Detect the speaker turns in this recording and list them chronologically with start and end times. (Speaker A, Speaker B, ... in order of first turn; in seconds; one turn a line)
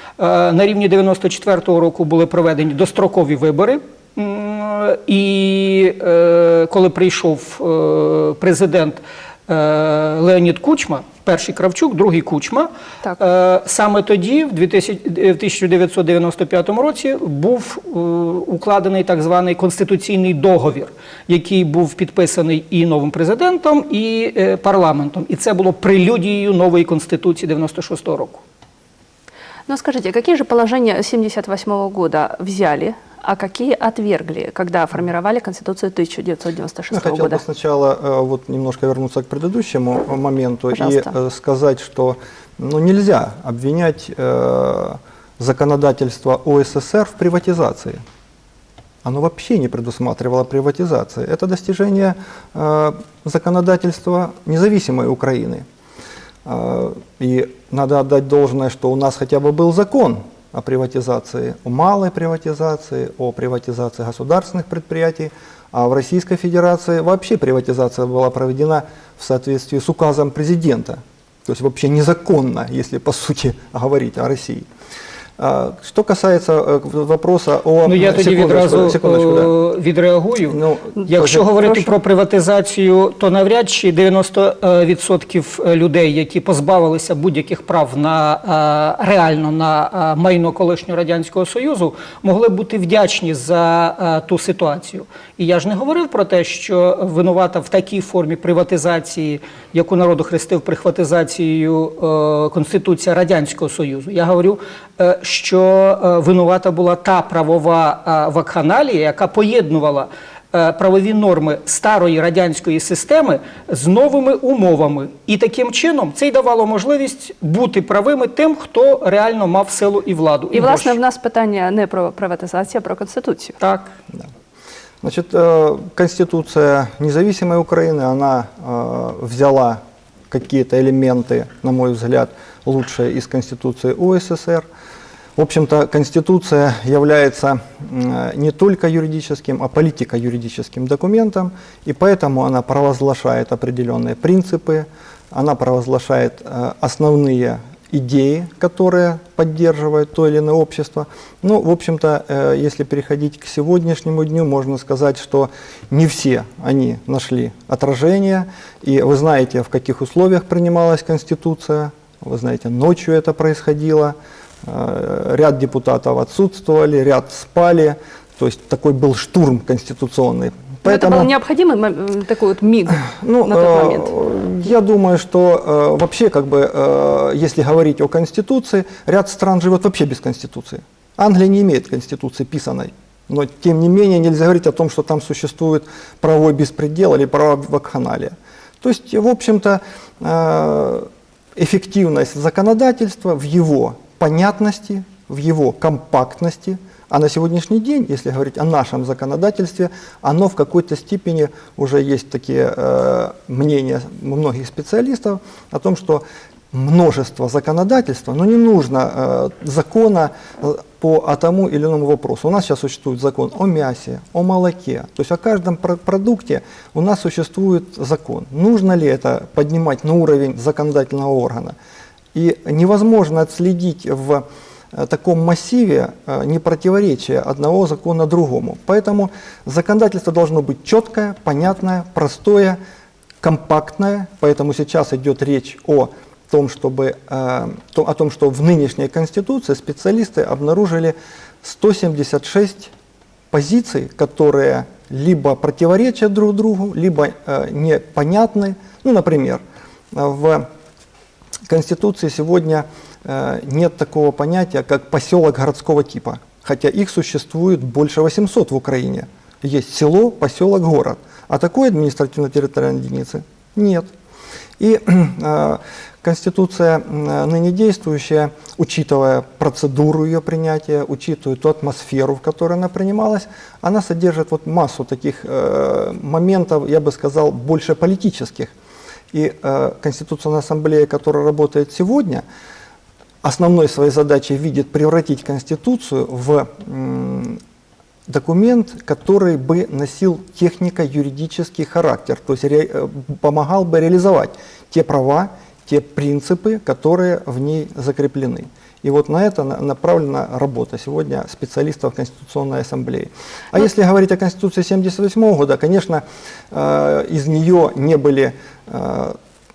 Speaker A: 0.2-28.4
Speaker B: 29.7-37.4
Speaker C: 36.9-48.0
Speaker B: 40.7-41.1
Speaker C: 49.0-55.6
Speaker C: 56.5-74.7
Speaker C: 75.4-79.5
Speaker A: 77.8-121.0
Speaker C: 80.5-81.4
Speaker B: 120.5-123.6
Speaker A: 123.6-123.9
Speaker C: 125.0-134.7
Speaker C: 135.4-171.3
Speaker B: 170.8-174.1
Speaker C: 173.0-221.8
Speaker C: 222.3-232.8
Speaker C: 233.4-242.9
Speaker C: 243.5-249.6
Speaker C: 250.1-250.7
Speaker C: 251.7-264.1
Speaker C: 264.8-278.7
Speaker C: 279.3-282.4
Speaker C: 283.4-287.6
Speaker C: 288.3-309.4